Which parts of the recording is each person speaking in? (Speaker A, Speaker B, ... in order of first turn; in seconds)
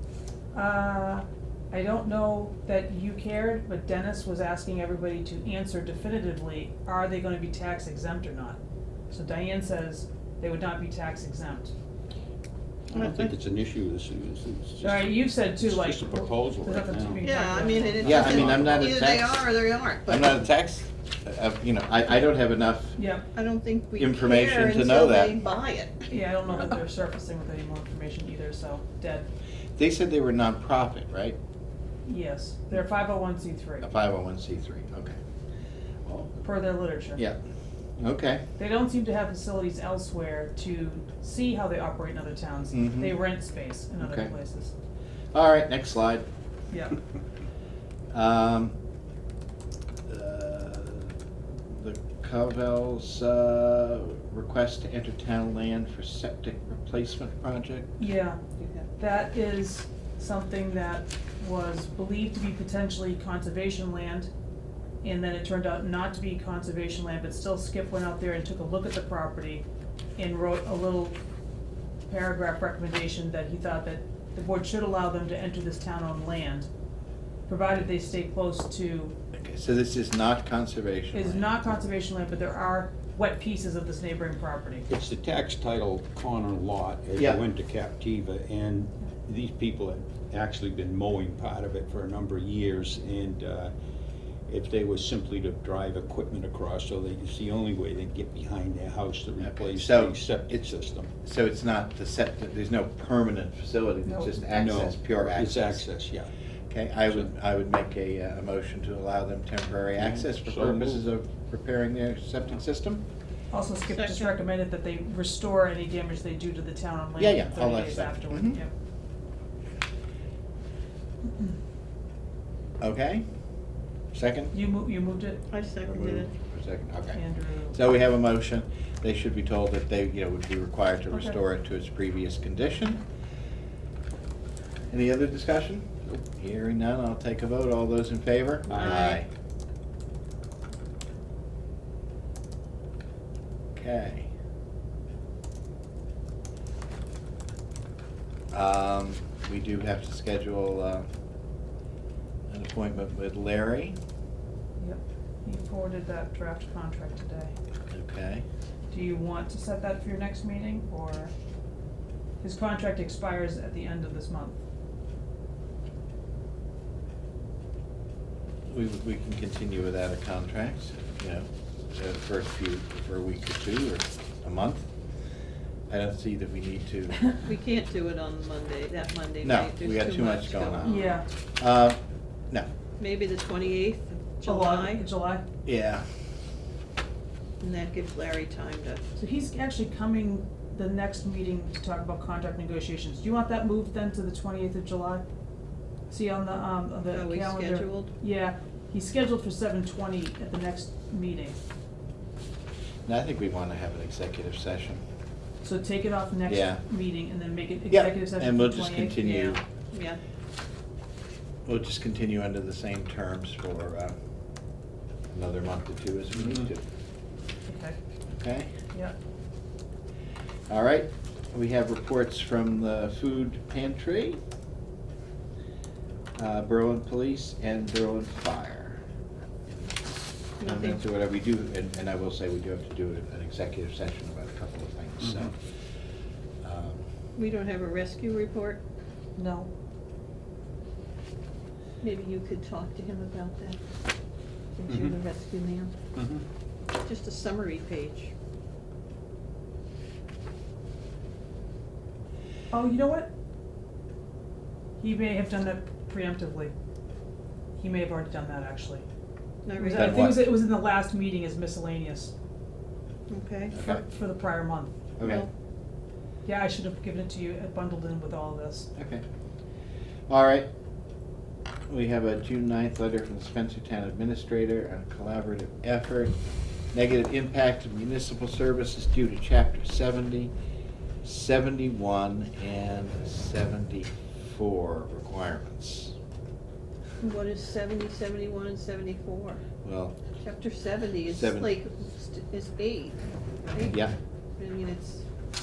Speaker A: 0.5-8.6, 9.1-11.7, 14.8-18.5, 23.0-23.3, 26.1-29.3, 32.1-33.9, 36.4-37.2, 38.6-44.7, 46.7-47.0, 58.0-58.4, 59.0-64.3, 65.0-69.7, 70.2-71.2, 72.1-76.7, 77.5-79.2, 81.1-84.9, 104.1-104.3, 113.5-118.7, 124.5-125.4, 127.1-127.8, 131.1-131.4, 154.8-157.5, 158.9-161.3, 162.4-164.6, 180.8-181.2, 184.4-185.4, 189.2-195.2, 196.1-201.6, 205.6-209.6, 217.7-218.0, 239.4-239.7, 252.7-253.3, 255.0-256.7, 257.8-259.0, 259.8-262.3, 263.8-264.9, 266.4-268.9
Speaker B: 12.9-17.4, 18.0-18.9, 84.9-93.7, 94.5-101.1, 104.5-106.3, 110.0-111.0, 244.9-245.2, 246.2-246.4
Speaker C: 12.9-13.3, 17.2-20.4, 23.3-26.1, 58.6-58.9, 113.9-114.3, 125.5-126.3, 138.7-139.2, 177.4-181.0, 183.0-185.1, 187.6-189.0, 197.1-198.1, 209.3-210.2, 230.6-231.0, 237.4-238.8, 242.0-243.8, 244.8-245.9, 247.0-248.3, 259.6-260.2, 263.3-263.8, 265.2-265.5, 287.2-289.6, 290.3-294.0, 294.6-295.2
Speaker D: 18.0-19.4, 20.1-23.0, 24.0-25.4, 29.8-31.4, 33.8-35.2, 36.0-36.4, 38.0-38.5, 42.7-43.2, 44.0-44.3, 45.3-46.2, 48.1-48.8, 50.1-51.1, 51.7-58.0, 79.3-81.5, 87.2-87.4, 99.4-100.6, 101.2-105.8, 106.7-113.0, 117.2-118.6, 122.8-123.2, 124.1-124.5, 125.8-133.0, 134.9-139.3, 143.8-144.3, 148.5-151.1, 152.5-154.0, 157.9-158.4, 168.7-174.9, 175.9-177.3, 179.4-182.0, 185.7-186.1, 203.1-205.0, 206.5-206.8, 207.9-209.6, 211.7-214.2, 215.3-216.8, 218.3-218.7, 220.7-224.4, 226.4-229.0, 229.7-235.6, 236.6-237.0, 259.9-260.5, 263.7-264.1, 265.2-265.5, 268.9-269.2, 270.3-270.7, 271.9-276.4, 276.9-280.5, 281.2-286.2, 289.8-290.2, 291.3-291.7, 293.9-294.1